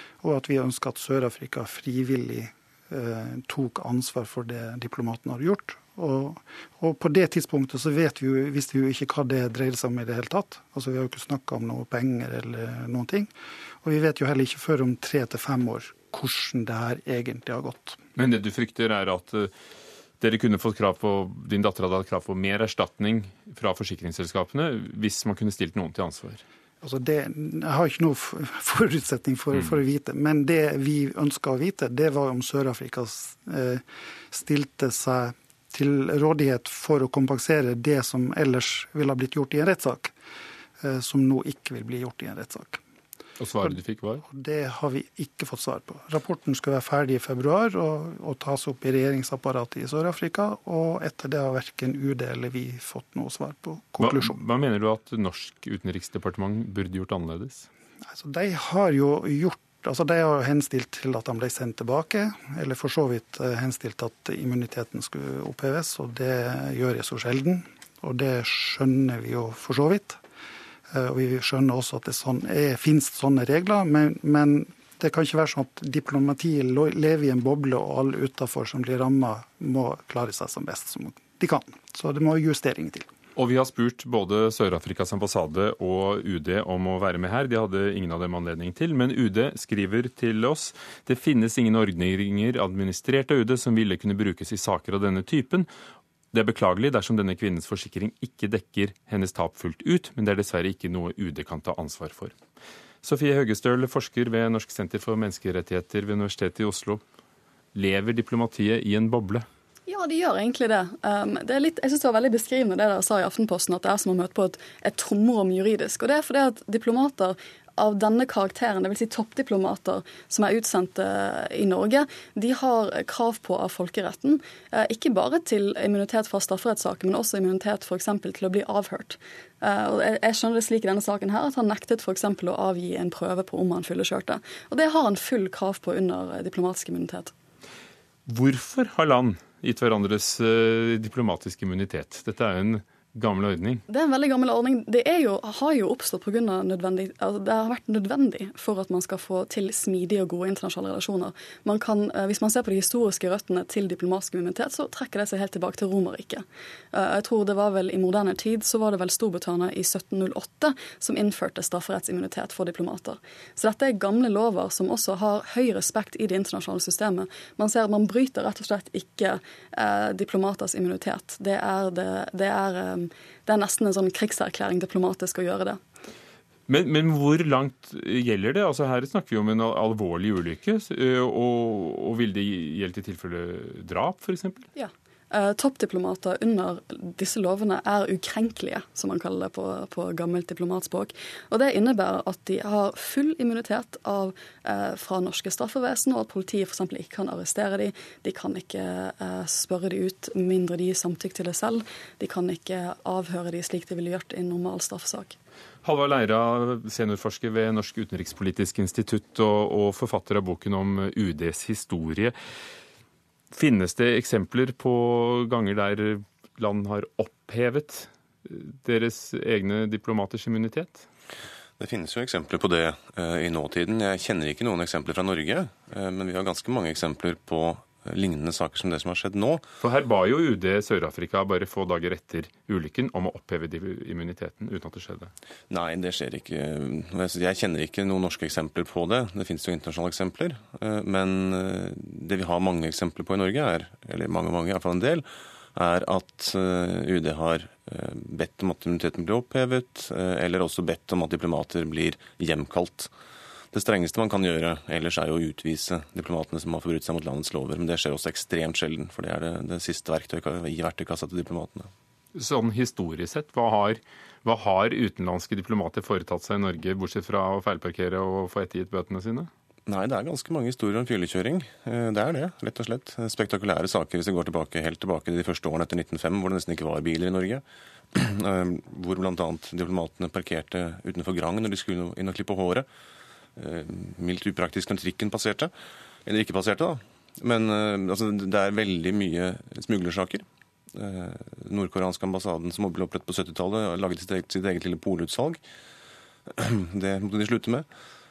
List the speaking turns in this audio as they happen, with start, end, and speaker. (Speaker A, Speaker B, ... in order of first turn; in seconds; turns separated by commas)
Speaker A: 0.2-13.3, Speaker A: 13.8-18.0, Speaker B: 18.1-19.5, Speaker B: 20.2-26.4, Speaker A: 26.8-40.1, Speaker A: 40.8-42.8, Speaker B: 43.4-44.2, Speaker A: 43.6-54.4, Speaker B: 54.0-57.7, Speaker A: 58.1-70.2, Speaker A: 70.9-83.1, Speaker B: 83.3-95.7, Speaker B: 96.3-102.3, Speaker B: 103.0-107.0, Speaker B: 107.7-109.5, Speaker C: 109.9-137.3, Speaker B: 138.3-143.8, Speaker C: 143.9-175.8, Speaker B: 176.7-184.7, Speaker C: 184.8-205.3, Speaker B: 205.8-212.3, Speaker B: 213.5-221.0, Speaker D: 221.8-229.6, Speaker B: 229.8-235.3, Speaker D: 235.7-253.1, Speaker D: 253.7-261.9, Speaker B: 262.3-269.5, Speaker D: 269.9-282.9, Speaker D: 283.6-285.7, Speaker D: 286.2-295.6, Speaker D: 296.6-297.9